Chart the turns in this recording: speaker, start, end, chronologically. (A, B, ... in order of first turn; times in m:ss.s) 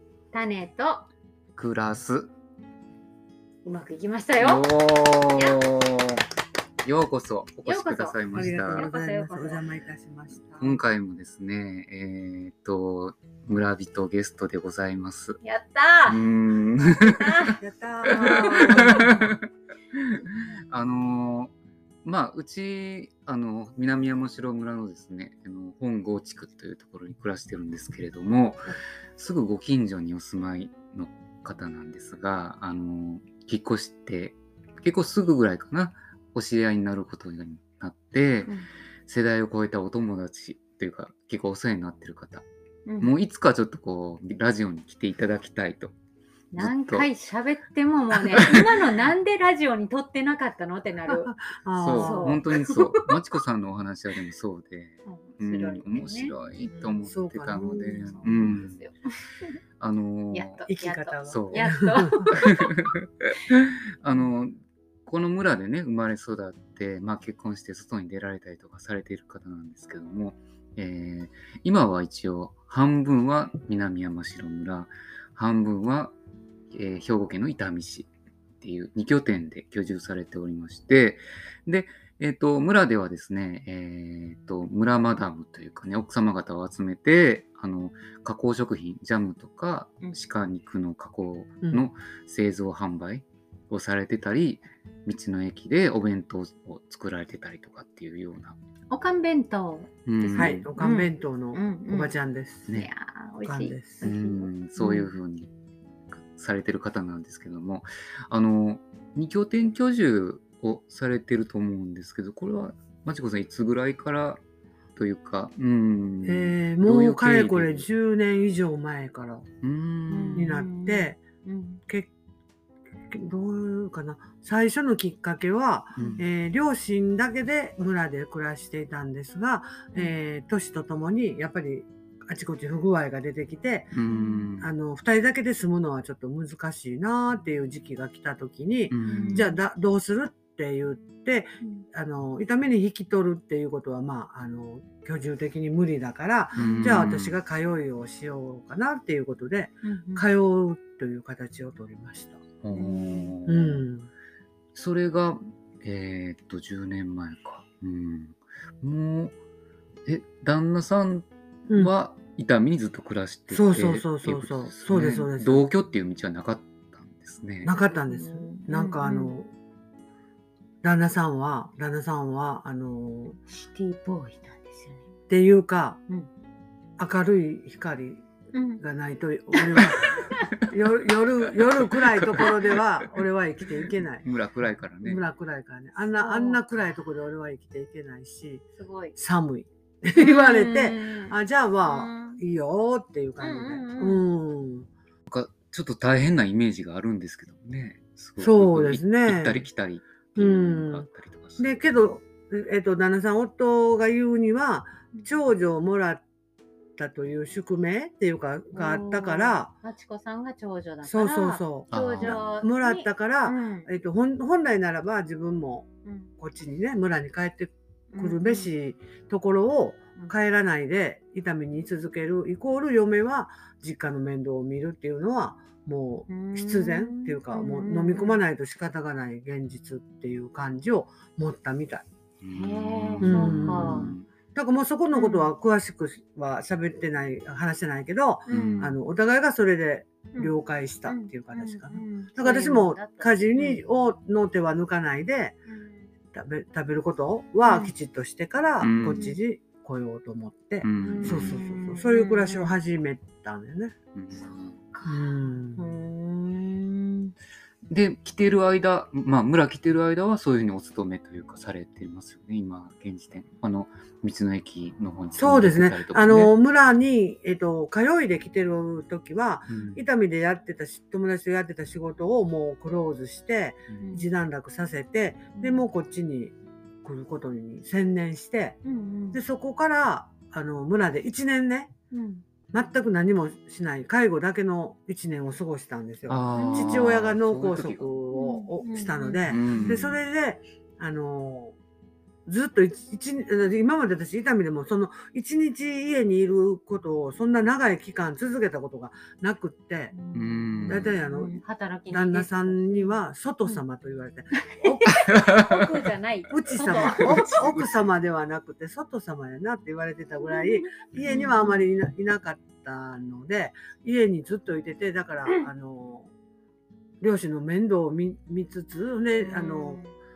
0:00.3-0:01.1 A
0:01.6-0:02.3 B
0:03.6-0:04.6 A
0:04.4-0:06.2 B
0:05.2-0:05.7 A
0:06.8-0:08.8 B
0:07.6-0:09.6 A
0:08.3-0:10.8 C
0:10.6-0:15.4 B
0:15.4-0:16.2 A
0:16.1-0:17.6 B
0:17.0-0:17.6 A
0:17.6-0:19.3 C
0:18.1-0:21.5 B
0:18.1-0:19.0 A
0:22.0-0:38.5 B
0:39.0-0:42.4 B
0:42.8-0:43.1 A
0:43.0-0:45.9 B
0:46.5-0:51.3 A
0:46.6-0:47.1 B
0:48.2-0:48.8 B
0:51.1-0:52.4 C
0:51.8-0:58.8 B
0:51.9-0:53.1 A
0:55.0-0:56.3 A
0:56.7-0:58.4 C
0:57.6-0:59.0 A
0:59.8-1:00.6 B
1:00.3-1:02.7 A
1:00.6-1:02.3 C
1:01.3-1:01.7 B
1:02.3-1:16.1 B
1:16.7-1:18.1 B
1:18.6-1:38.6 B
1:31.6-1:31.9 C
1:38.9-1:42.2 A
1:40.0-1:40.7 B
1:40.4-1:42.7 C
1:42.7-1:45.1 A
1:43.4-1:44.0 C
1:44.0-1:45.5 B
1:46.1-1:54.4 B
1:55.0-1:57.9 B
1:56.2-1:59.4 C
1:59.6-2:00.6 B
2:00.1-2:01.8 A
2:00.3-2:01.2 C
2:03.1-2:14.0 C
2:06.0-2:06.2 B
2:13.9-2:14.7 B
2:14.1-2:14.5 A
2:14.6-2:32.4 C
2:18.9-2:19.5 B
2:19.1-2:19.5 A
2:26.6-2:27.0 A
2:26.6-2:27.4 B
2:29.8-2:30.2 A
2:32.6-2:33.8 B
2:32.7-2:33.3 A
2:33.4-2:34.1 C
2:34.7-2:39.3 B
2:40.0-2:47.7 B
2:43.5-2:45.7 C
2:47.6-2:49.5 C
2:48.1-2:49.3 A
2:50.8-2:53.4 C
2:53.5-2:55.0 A
2:55.3-2:56.0 C
2:57.0-2:58.2 C
2:58.5-2:58.8 A
2:58.8-3:04.2 C
2:59.5-3:00.6 A
3:01.8-3:02.8 B
3:03.8-3:05.2 B
3:05.0-3:08.6 C
3:06.1-3:06.6 A
3:08.8-3:09.2 A
3:09.2-3:14.9 C
3:10.2-3:12.4 A
3:13.4-3:14.2 A
3:15.3-3:22.0 B
3:18.4-3:19.6 C
3:20.4-3:21.1 C
3:21.6-3:26.2 C
3:27.0-3:29.7 C
3:28.7-3:33.9 A
3:31.0-3:52.0 C
3:31.9-3:32.4 B
3:36.0-3:36.3 A
3:38.1-3:38.7 A
3:46.3-3:48.4 A
3:52.4-3:54.3 B
3:52.5-3:54.2 A
3:53.2-4:05.6 C
3:55.1-3:55.5 A
3:58.5-3:58.9 A
3:58.5-3:58.9 B
4:01.0-4:03.8 A
4:05.7-4:06.0 A
4:06.3-4:13.9 C
4:07.6-4:07.9 A
4:08.8-4:09.3 B
4:09.1-4:09.4 A
4:10.8-4:11.6 B
4:11.0-4:12.7 A
4:14.1-4:14.8 B
4:14.3-4:17.3 A
4:15.0-4:15.9 C
4:17.9-4:26.5 B
4:25.4-4:38.8 C
4:29.7-4:30.0 B
4:35.6-4:35.8 A
4:38.8-4:39.4 A
4:39.3-4:41.9 C
4:42.1-4:42.4 A
4:42.7-4:51.8 C
4:46.3-4:48.1 B
4:46.5-4:47.1 A
4:48.3-4:50.1 A
4:49.5-4:50.1 B
4:52.4-5:00.2 C
5:00.1-5:03.8 A
5:00.3-5:01.1 B
5:00.8-5:01.6 C
5:02.1-5:05.4 C
5:04.6-5:07.6 A
5:05.3-5:05.8 B
5:06.5-5:16.3 C
5:06.8-5:07.9 B
5:10.5-5:11.8 A
5:17.2-5:20.0 C
5:19.4-5:20.1 A